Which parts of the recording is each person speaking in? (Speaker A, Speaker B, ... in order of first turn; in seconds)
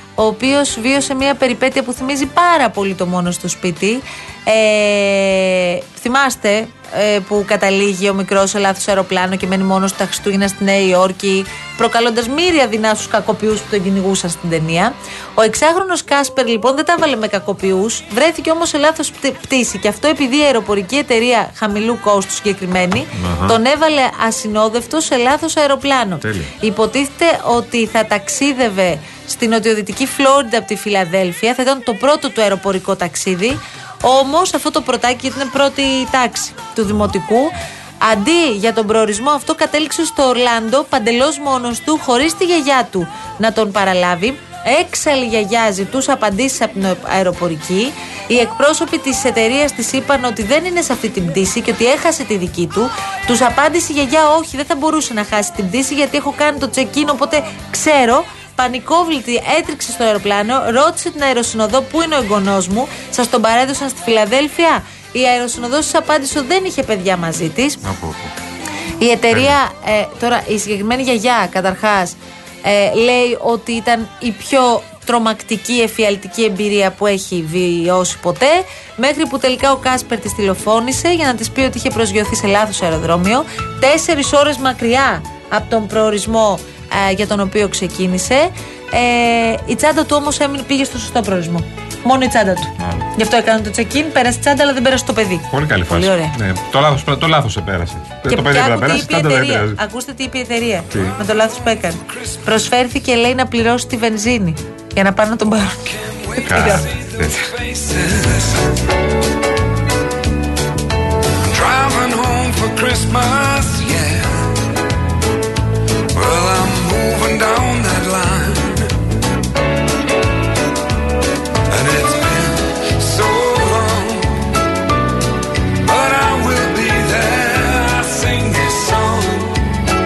Speaker A: 0.2-67.8, 69.0-96.3, 98.2-106.8
Speaker B: 23.1-23.6, 26.2-26.5, 67.8-68.3, 92.8-93.0, 95.5-99.8, 100.9-101.2, 106.4-107.5
Speaker C: 102.1-102.4, 105.8-108.7, 111.5-114.5, 116.1-118.9, 121.7-124.4, 125.8-129.6